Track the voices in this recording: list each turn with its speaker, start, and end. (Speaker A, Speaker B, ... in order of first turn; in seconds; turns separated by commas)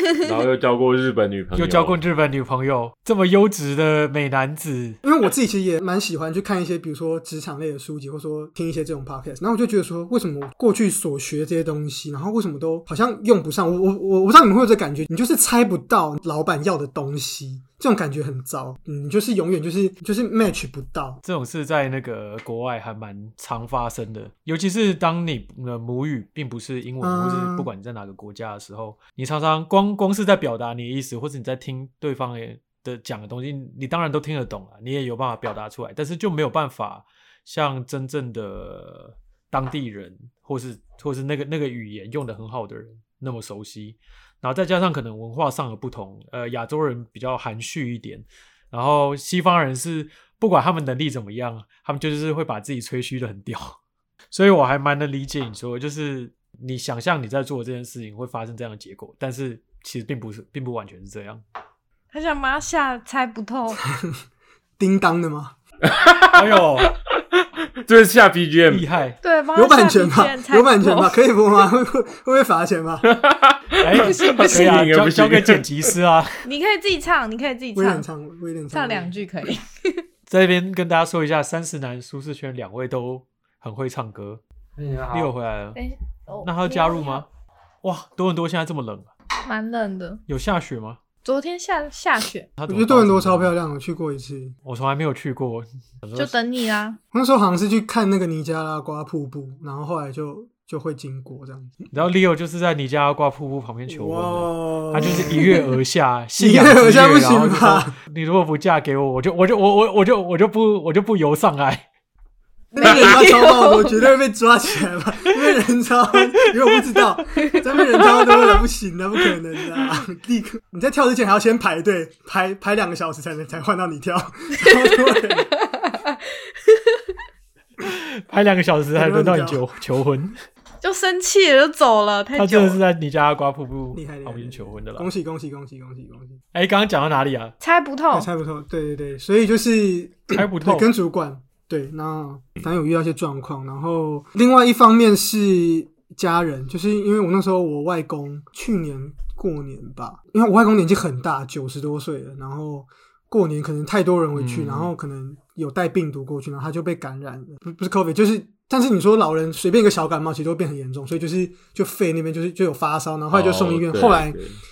Speaker A: 0.2-2.0, Speaker B: 1.5-5.0, Speaker C: 5.0-21.2, Speaker B: 21.2-53.8, Speaker C: 27.0-27.7, Speaker B: 54.3-61.4, Speaker D: 62.1-63.8, Speaker C: 64.8-65.5, Speaker A: 65.9-66.9, Speaker B: 66.3-66.9, Speaker A: 67.8-68.8, Speaker B: 68.7-69.2, Speaker D: 69.2-71.2, Speaker C: 69.5-73.1, Speaker A: 73.0-75.6, Speaker B: 73.8-76.5, Speaker D: 73.9-74.9, Speaker D: 76.4-78.0, Speaker C: 77.7-79.1, Speaker D: 78.7-80.0, Speaker B: 80.3-84.4, Speaker A: 84.8-85.3, Speaker B: 85.1-85.8, Speaker D: 85.7-87.2, Speaker B: 86.3-87.2, Speaker B: 87.8-89.1, Speaker D: 89.4-90.2, Speaker B: 90.3-91.0, Speaker D: 91.2-92.5, Speaker B: 92.6-93.5, Speaker C: 92.7-94.5, Speaker B: 94.6-96.3, Speaker D: 96.2-97.0, Speaker C: 97.1-101.9, Speaker B: 101.9-111.8, Speaker C: 103.9-105.5, Speaker D: 105.0-105.7, Speaker C: 106.4-107.9, Speaker C: 112.7-125.5, Speaker D: 112.7-114.1, Speaker D: 117.5-118.5, Speaker D: 125.5-127.0, Speaker B: 127.8-130.4, Speaker C: 128.9-129.6, Speaker D: 130.8-132.8, Speaker B: 132.3-135.1, Speaker C: 133.9-136.4, Speaker B: 136.5-137.5, Speaker D: 137.6-138.3, Speaker C: 138.1-164.4, Speaker B: 140.3-140.9, Speaker B: 154.3-154.9, Speaker A: 163.3-164.6